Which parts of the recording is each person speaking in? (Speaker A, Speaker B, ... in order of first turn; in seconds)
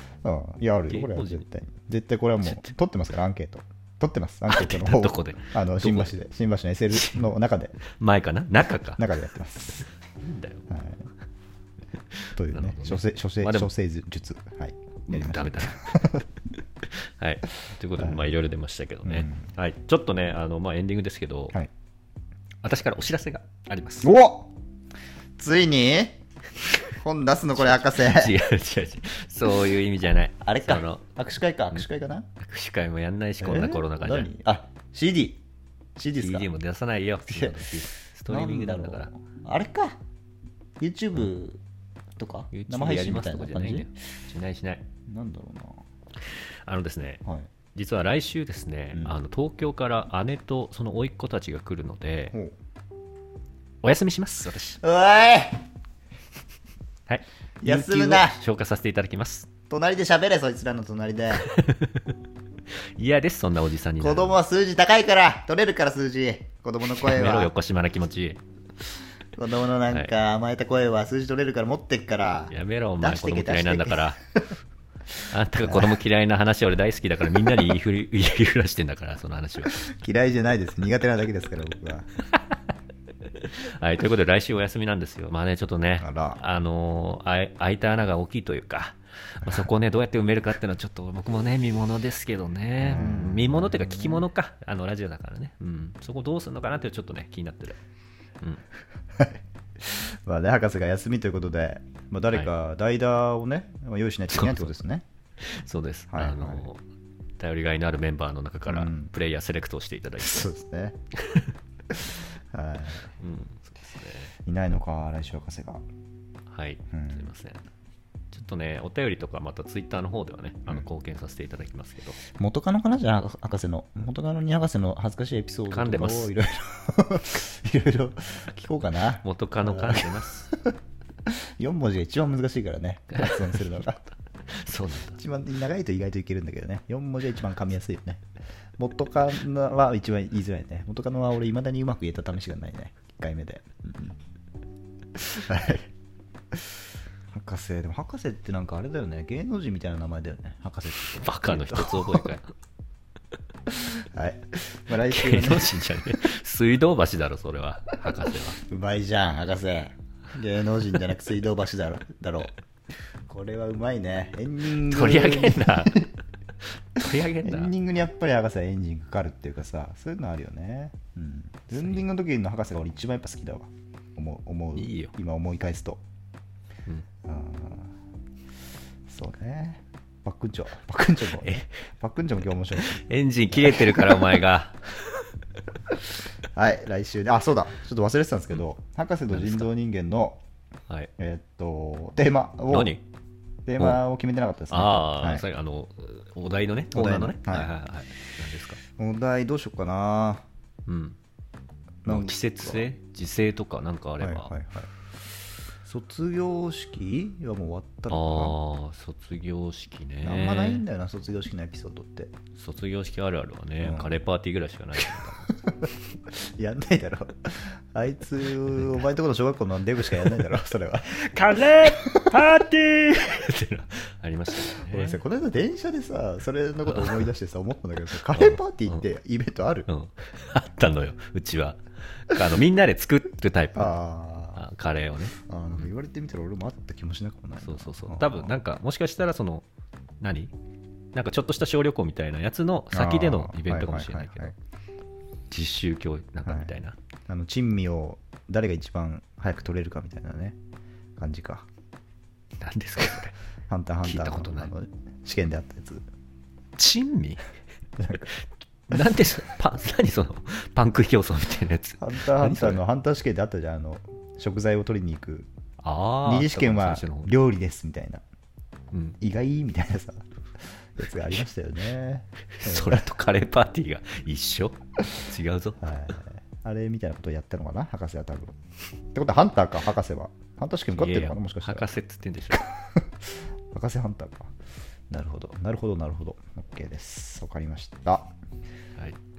Speaker A: 0.2-7.8, 9.0-9.9, 10.7-11.0, 12.4-16.2, 18.0-18.3, 19.0-19.4, 24.0-24.5, 25.4-26.2, 26.9-28.3, 30.4-32.3, 33.4-35.4, 36.0-36.5, 37.3-37.7, 38.3-40.0, 40.8-41.6, 42.1-43.9, 45.1-45.8, 54.8-55.6, 57.6-58.4, 59.7-61.5, 64.0-67.5, 69.3-74.4, 75.6-76.0, 77.3-77.7, 79.7-82.1, 86.0-86.4, 89.4-89.7, 92.8-94.2, 99.2-105.0, 106.1-106.7, 108.7-109.1, 110.2-111.0, 111.9-113.1, 114.5-115.8, 116.9-117.3, 122.4-130.7, 131.3-134.0, 135.1-138.2, 138.8-144.2, 145.2-145.9, 147.3-152.3, 153.7-155.9, 158.2-162.5, 163.3-166.1, 167.4-176.0, 177.2-177.9, 179.1-183.0, 183.5-184.4, 186.5-190.4, 191.2-192.9, 193.7-195.5, 196.9-197.7, 199.0-200.4, 202.0-202.9, 204.2-204.9, 205.8-208.6, 210.2-212.3, 213.8-214.2, 216.4-222.5, 224.6-229.9, 233.7-234.6, 235.4-238.6, 242.9-244.5, 246.4-246.7, 247.3-250.6, 251.2-251.7, 253.7-256.0, 258.0-258.2, 262.0-265.5, 266.2-268.2, 269.2-273.1, 275.8-278.5, 279.1-281.9, 282.6-283.0, 283.7-284.5, 285.1-288.3
Speaker B: 0.9-1.4, 2.4-2.7, 4.5-6.1, 6.9-7.3, 7.9-9.2, 10.2-10.6, 12.2-13.7, 15.1-16.1, 16.8-21.6, 22.6-24.1, 27.5-31.0, 32.4-34.3, 36.1-39.1, 42.5-44.9, 46.6-47.2, 47.7-52.3, 53.8-54.8, 57.1-59.5, 61.4-62.1, 63.0-64.3, 66.9-68.4, 72.5-74.2, 75.3-79.8, 83.3-97.8, 104.3-104.7, 105.4-106.8, 107.4-110.5, 113.2-114.3, 116.5-117.6, 118.3-122.2, 125.7-126.3, 129.2-130.5, 133.1-133.7, 134.5-135.2, 151.2-152.5, 155.0-158.6, 164.6-166.1, 166.9-167.7, 171.7-172.0, 174.8-175.1, 181.4-181.7, 182.8-184.8, 189.3-189.7, 192.7-193.0, 194.7-198.8, 200.9-201.2, 202.0-204.5, 208.1-210.8, 212.6-215.5, 221.1-225.2, 226.8-227.3, 228.1-229.1, 229.9-234.0, 234.6-235.9, 237.6-239.6, 240.2-240.5, 241.1-244.5, 245.5-246.9, 252.6-253.3, 254.0-254.7, 256.8-257.4, 258.2-262.8, 265.8-267.3, 268.9-269.2, 272.5-275.9, 280.9-282.6